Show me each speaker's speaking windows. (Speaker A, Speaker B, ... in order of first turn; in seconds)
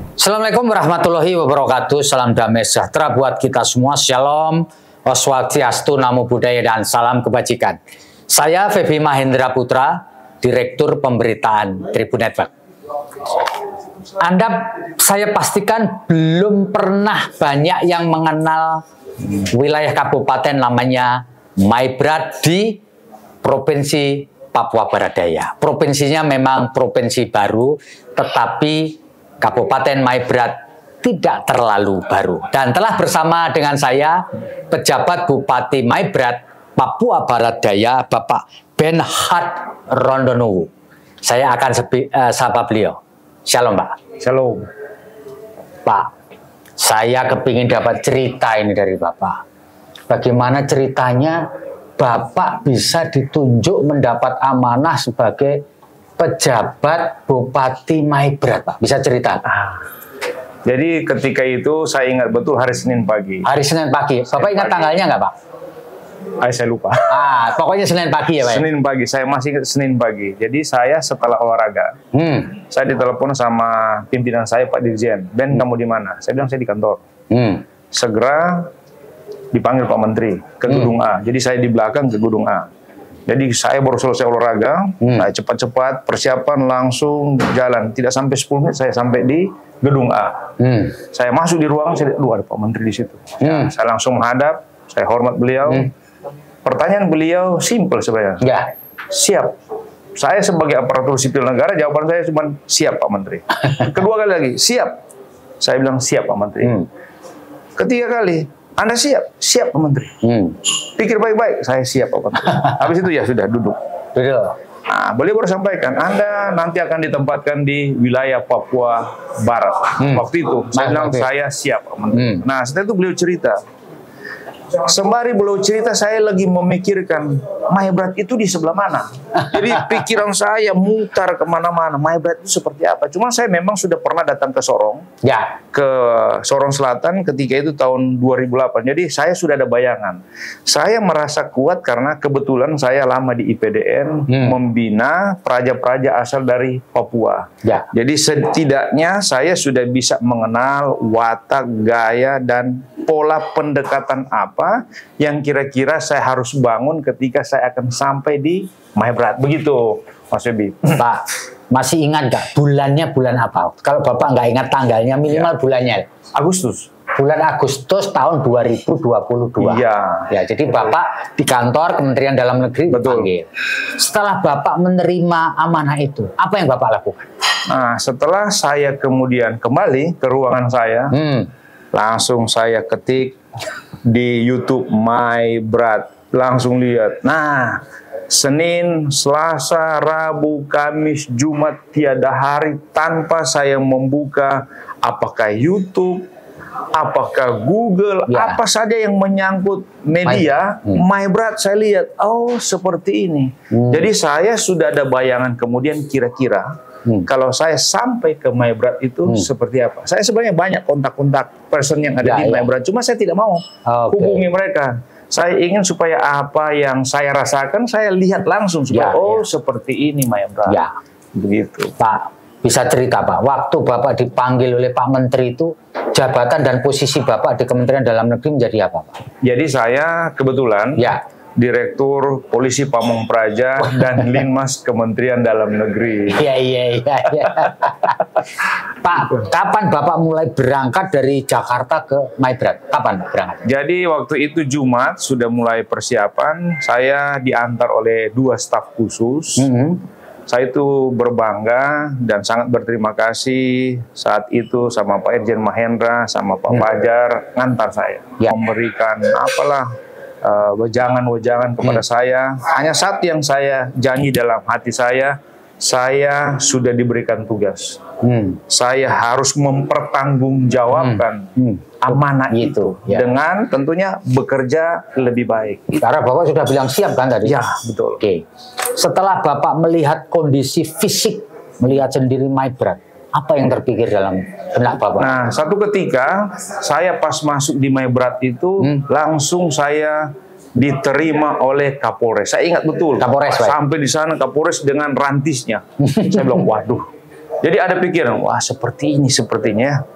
Speaker A: 0.2-7.8, 8.3-12.5, 14.2-18.8, 19.3-22.8, 23.4-40.7, 41.2-44.0, 45.8-46.1, 46.8-49.4, 50.1-51.4, 52.0-55.6, 56.2-59.4, 63.5-65.3, 67.1-68.7, 72.1-72.5, 77.3-77.6, 80.7-80.9, 85.0-85.3, 90.6-91.0, 93.4-93.7, 98.4-98.7, 106.6-106.9, 110.2-110.6, 114.1-114.5, 120.0-121.3, 122.1-122.4, 129.5-130.0, 135.2-135.5, 144.3-144.6, 161.0-166.1, 167.2-177.3, 181.1-181.5, 198.3-198.6, 200.2-201.0, 203.7-204.1, 212.2-212.7, 213.9-214.4, 218.9-219.4, 222.0-229.2, 233.9-234.2, 236.3-243.7, 249.6-250.0, 268.2-268.6, 270.9-273.2, 276.0-277.6, 278.2-285.4, 293.2-293.8, 296.1-296.6
Speaker B: 44.2-44.7, 59.5-59.8, 60.6-63.5, 64.3-64.9, 66.4-67.1, 68.4-71.9, 72.5-77.0, 77.9-78.7, 79.5-82.7, 83.3-90.5, 91.0-95.9, 96.6-98.6, 99.1-99.5, 100.2-105.0, 105.6-106.8, 107.8-110.2, 110.9-113.8, 114.9-123.6, 124.8-135.1, 135.7-161.1, 166.3-166.9, 169.6-171.0, 172.9-173.3, 177.7-181.2, 181.9-183.4, 184.1-196.2, 196.9-206.7, 207.2-220.8, 221.3-221.9, 229.4-231.1, 231.6-236.5, 243.7-249.7, 250.5-259.9, 260.4-268.0, 268.7-271.5, 272.0-276.0, 277.4-278.2, 285.2-297.0, 297.6-300.0